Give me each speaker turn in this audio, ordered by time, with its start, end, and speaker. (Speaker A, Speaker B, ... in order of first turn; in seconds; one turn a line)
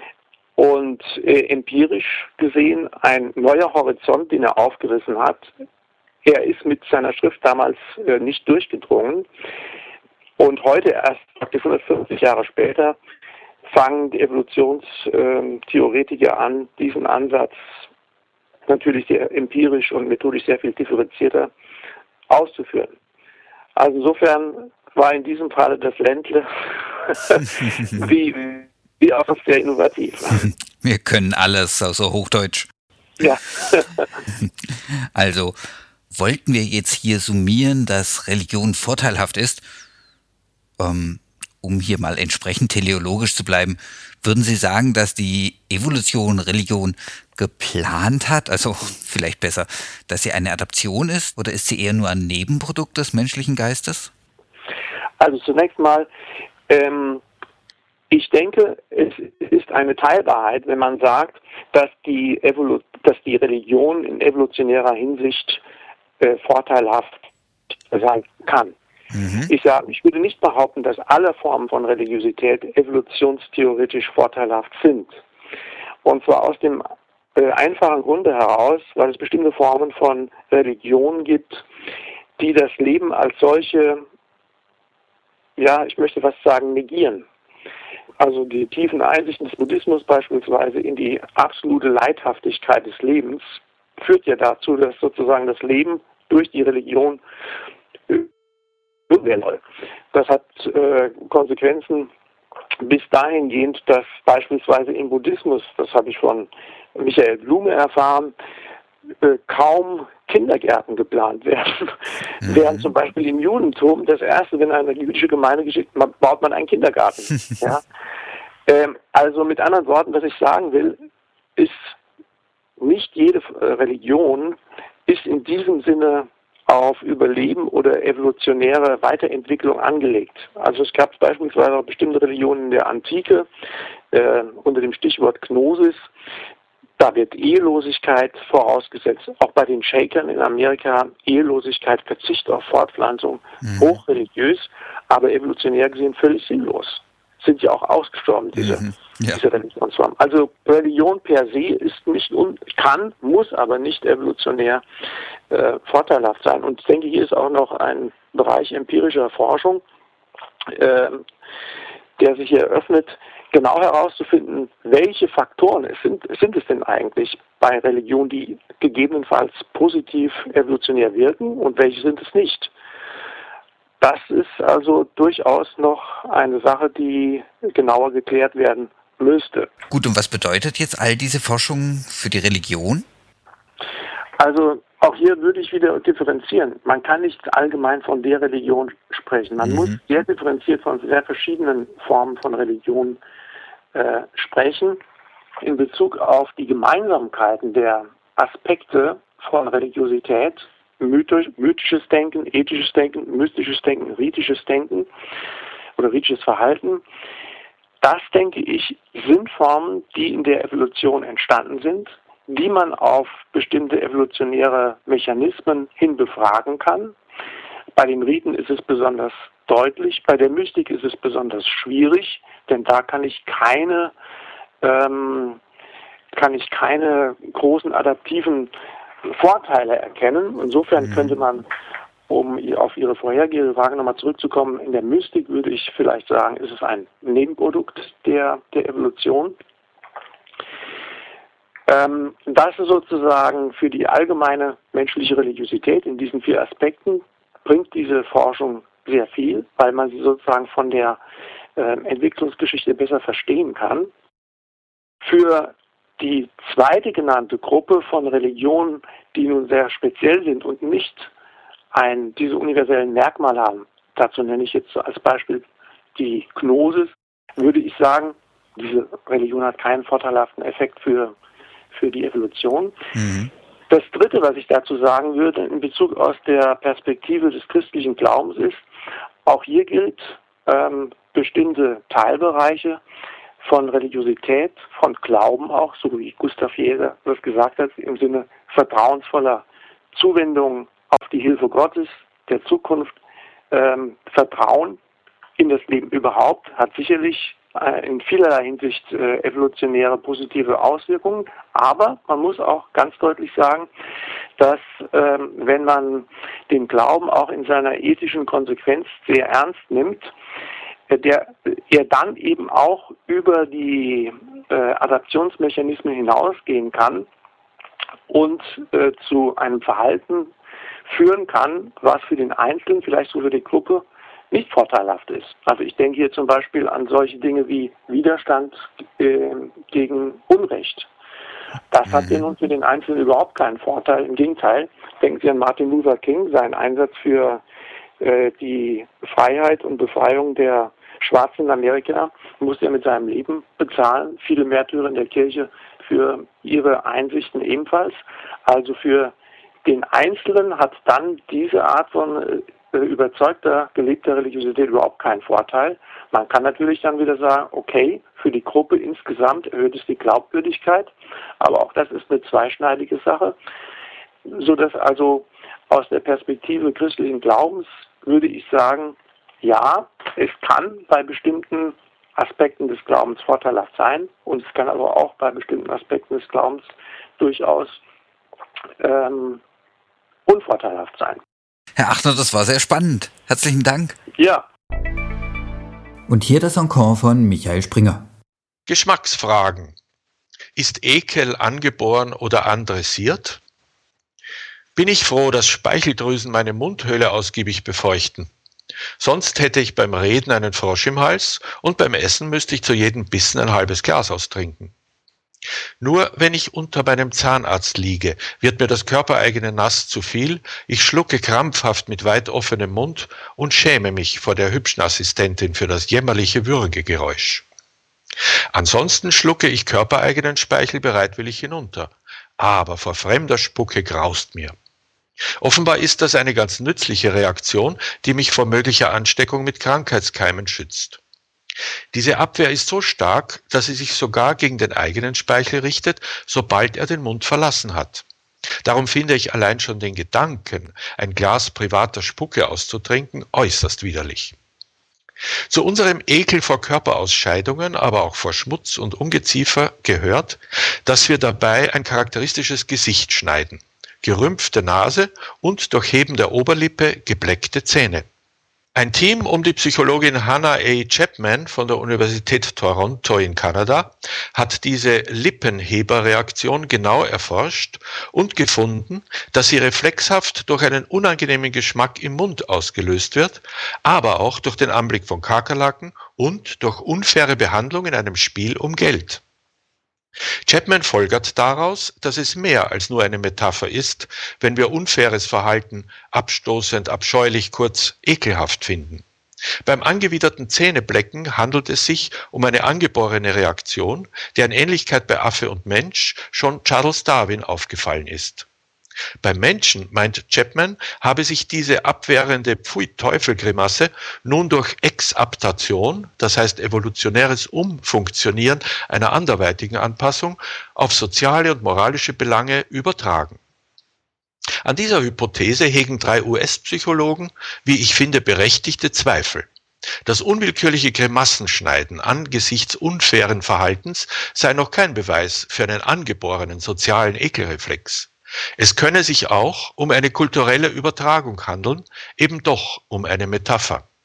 Speaker A: 0.6-5.5
Speaker A: 6.2-9.3
Speaker A: 10.4-12.9
Speaker A: 13.7-17.6
Speaker A: 18.7-21.5
Speaker A: 22.3-22.9
Speaker A: 23.8-26.5
Speaker A: 27.0-30.5
Speaker B: 30.8-32.7
Speaker A: 33.2-34.1
Speaker B: 34.4-35.6
Speaker B: 36.1-39.6
Speaker B: 40.8-54.1
Speaker A: 55.2-56.1
Speaker A: 56.7-57.2
Speaker A: 58.1-65.6
Speaker A: 66.2-67.2
Speaker A: 67.9-68.7
Speaker B: 69.1-69.5
Speaker A: 69.5-75.2
Speaker A: 76.0-81.6
Speaker A: 82.4-84.0
Speaker A: 85.6-87.2
Speaker A: 88.2-97.2
Speaker A: 99.1-99.6
Speaker A: 100.1-102.1
Speaker A: 102.8-108.3
Speaker A: 109.2-117.8
Speaker B: 112.4-112.8
Speaker A: 118.7-121.0
Speaker A: 121.5-121.9
Speaker A: 122.8-133.5
Speaker A: 134.1-136.1
Speaker A: 137.0-154.8
Speaker B: 143.6-143.9
Speaker B: 148.6-149.4
Speaker A: 155.5-159.8
Speaker A: 160.7-161.2
Speaker A: 162.2-172.7
Speaker A: 174.0-179.7
Speaker B: 179.9-183.0
Speaker A: 184.4-193.2
Speaker B: 189.6-189.9
Speaker A: 193.9-195.0
Speaker A: 195.6-205.1
Speaker A: 206.0-207.0
Speaker A: 208.0-217.1
Speaker A: 217.9-224.1
Speaker A: 224.8-225.6
Speaker A: 226.3-228.7
Speaker A: 229.2-231.6
Speaker A: 232.3-239.6
Speaker A: 241.9-251.2
Speaker A: 251.8-254.1
Speaker A: 255.2-261.3
Speaker A: 261.9-271.3
Speaker A: 271.9-273.0
Speaker B: 273.1-273.5
Speaker A: 273.9-278.8
Speaker A: 279.4-283.0
Speaker A: 283.6-293.1
Speaker A: 293.7-295.0
Speaker A: 295.6-303.9
Speaker A: 304.6-310.3
Speaker A: 311.1-317.3
Speaker A: 318.3-320.5
Speaker A: 321.1-331.1
Speaker A: 331.9-337.6
Speaker B: 332.1-332.4
Speaker A: 338.2-349.3
Speaker A: 349.8-363.5
Speaker A: 364.4-378.0
Speaker A: 379.0-379.6
Speaker A: 380.4-381.4
Speaker B: 382.0-384.2
Speaker A: 384.4-384.6
Speaker B: 386.3-388.3
Speaker C: 388.9-389.9
Speaker C: 390.8-393.6
Speaker C: 394.9-398.5
Speaker C: 399.2-404.9
Speaker C: 406.0-417.6
Speaker C: 418.7-424.7
Speaker C: 425.6-431.2
Speaker C: 432.1-438.2
Speaker C: 438.8-444.6
Speaker C: 445.7-458.3
Speaker C: 458.9-479.4
Speaker C: 480.6-489.2
Speaker C: 489.8-498.6
Speaker C: 499.4-513.6
Speaker C: 514.8-519.7
Speaker C: 520.2-534.0